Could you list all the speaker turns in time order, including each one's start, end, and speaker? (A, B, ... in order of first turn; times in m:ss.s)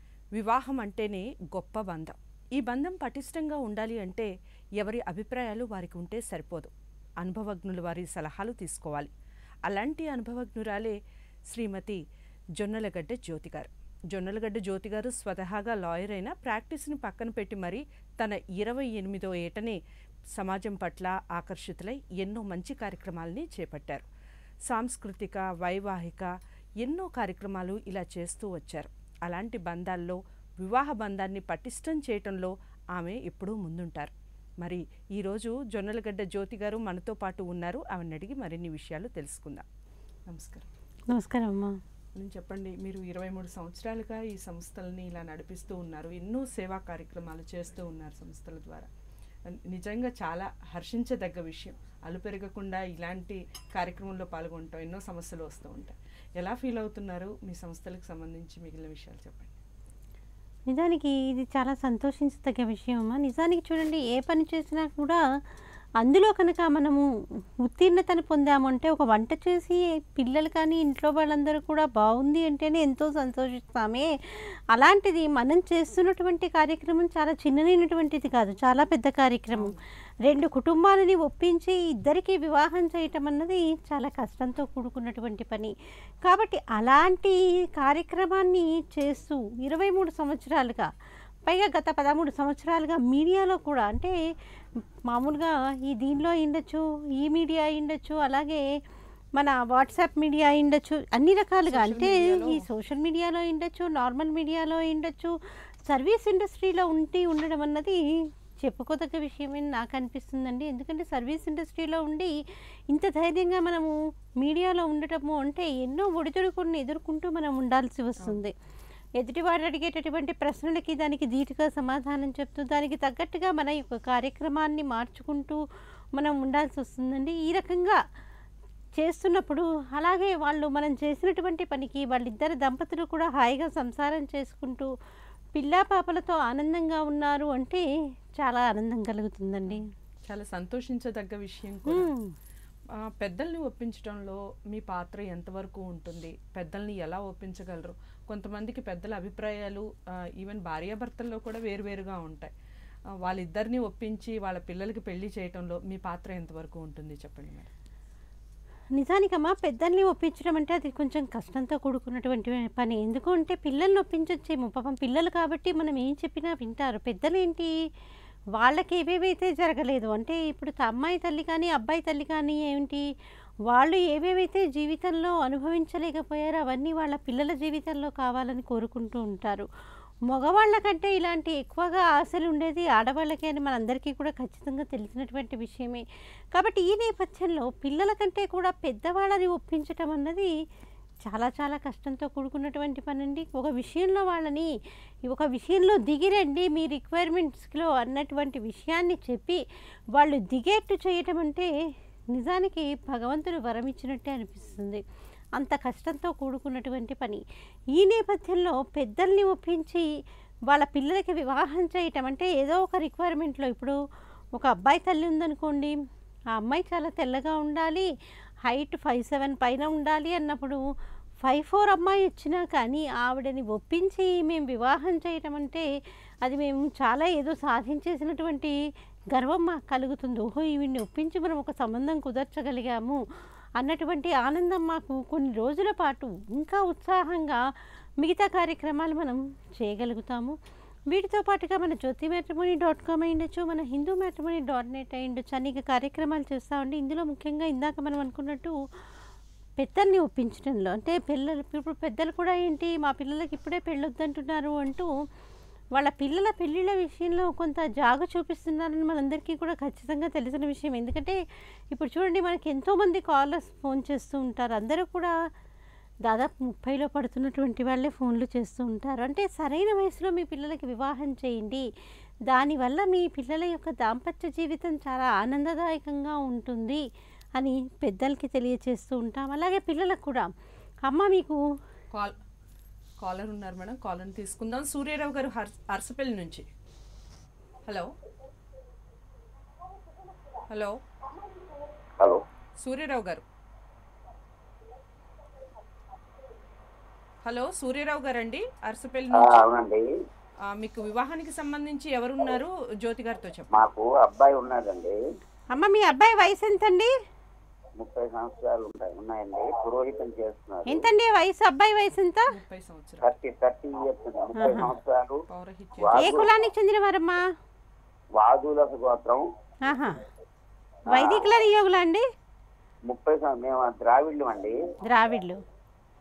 0:00.3-0:09.1 A
0:09.6-0:11.0 A
0:11.5-0:12.0 A
0:12.6-0:19.8 A
0:20.4-0:24.0 A
0:24.7-0:39.6 A
0:40.3-0:40.7 A
0:41.1-0:41.8 B
0:42.2-0:48.9 A
0:49.5-0:59.5 A
1:00.7-1:05.2 B
1:06.0-1:07.0 B
1:07.6-1:14.1 B
1:14.7-1:19.7 B
1:20.2-1:25.7 B
1:26.2-1:30.9 B
1:31.5-1:34.1 B
1:35.1-1:38.6 B
1:39.4-1:45.3 B
1:41.7-1:42.7 A
1:45.8-1:48.0 B
1:48.6-1:52.3 B
1:52.9-1:58.5 B
1:59.2-2:05.6 B
2:06.2-2:08.0 B
2:09.0-2:14.9 B
2:15.6-2:17.8 B
2:18.4-2:19.8 B
2:19.7-2:22.1 A
2:21.9-2:22.3 B
2:23.0-2:32.5 A
2:33.2-2:37.7 A
2:39.0-2:47.7 B
2:48.6-2:53.0 B
2:53.7-2:59.6 B
3:00.3-3:06.0 B
3:06.5-3:10.5 B
3:11.2-3:14.7 B
3:15.3-3:19.6 B
3:20.1-3:21.7 B
3:22.3-3:25.0 B
3:25.6-3:27.4 B
3:27.9-3:30.0 B
3:30.7-3:34.0 B
3:34.6-3:36.0 B
3:36.6-3:38.1 B
3:38.7-3:40.8 B
3:41.4-3:45.8 B
3:46.4-3:48.7 B
3:49.3-3:53.2 B
3:53.8-3:57.6 B
3:58.2-4:00.6 B
4:01.1-4:08.7 B
4:09.8-4:15.1 B
4:15.9-4:21.4 B
4:21.9-4:25.3 B
4:26.2-4:31.8 B
4:32.5-4:37.0 B
4:37.6-4:40.5 B
4:41.0-4:41.6 B
4:43.2-4:46.7 A
4:47.9-4:48.1 A
4:50.7-4:51.0 A
4:52.8-4:53.4 A
4:57.4-4:59.6 A
4:59.4-5:00.0 C
5:00.7-5:03.7 A
5:03.7-5:05.2 C
5:05.7-5:07.1 B
5:08.0-5:11.0 C
5:10.9-5:12.5 B
5:12.5-5:13.3 A
5:13.2-5:15.4 C
5:14.6-5:14.9 B
5:15.5-5:16.3 A
5:16.0-5:16.5 C
5:16.2-5:17.4 B
5:18.4-5:19.4 C
5:19.8-5:20.1 B
5:21.1-5:22.2 B
5:21.1-5:21.4 C
5:23.1-5:24.7 C
5:25.1-5:25.6 B